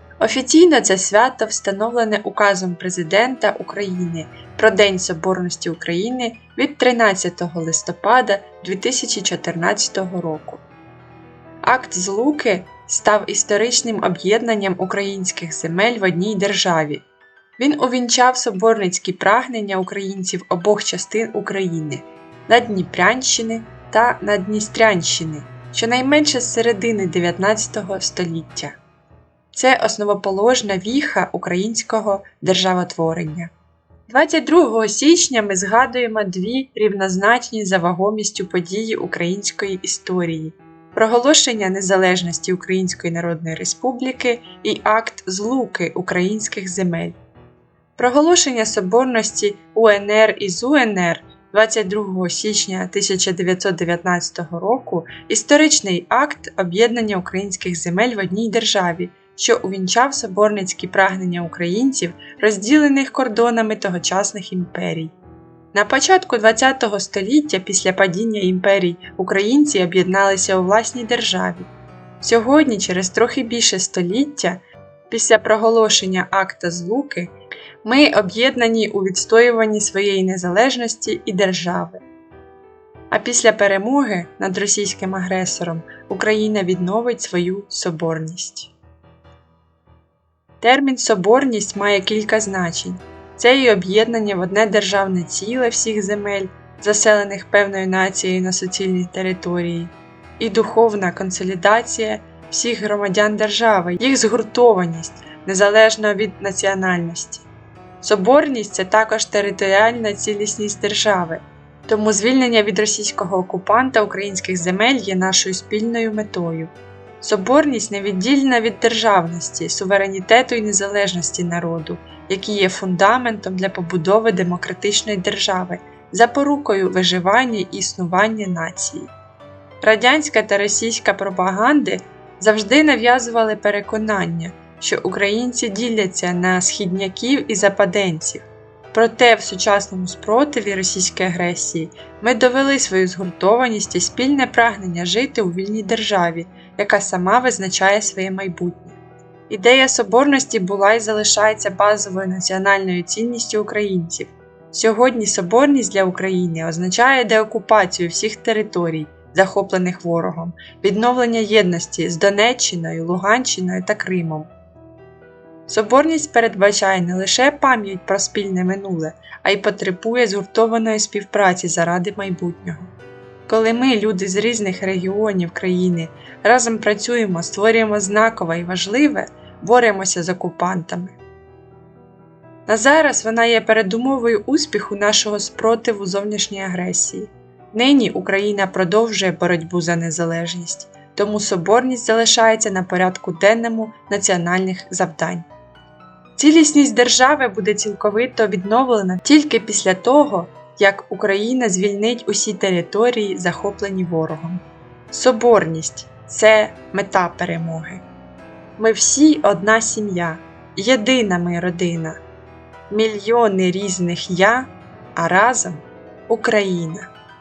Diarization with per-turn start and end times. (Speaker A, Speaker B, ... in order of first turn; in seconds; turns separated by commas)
Speaker A: 0.2-10.6, Speaker A: 11.6-17.0, Speaker A: 17.6-28.8, Speaker A: 29.5-33.5, Speaker A: 34.1-47.2, Speaker A: 48.0-65.1, Speaker A: 65.7-71.7, Speaker A: 72.2-77.3, Speaker A: 77.8-82.0, Speaker A: 83.1-88.7, Speaker A: 90.6-107.5, Speaker A: 108.0-129.1, Speaker A: 129.8-149.0, Speaker A: 149.5-164.5, Speaker A: 165.7-172.9, Speaker A: 173.5-181.2, Speaker A: 182.7-195.4, Speaker A: 196.3-208.0, Speaker A: 208.8-212.2, Speaker A: 212.9-217.1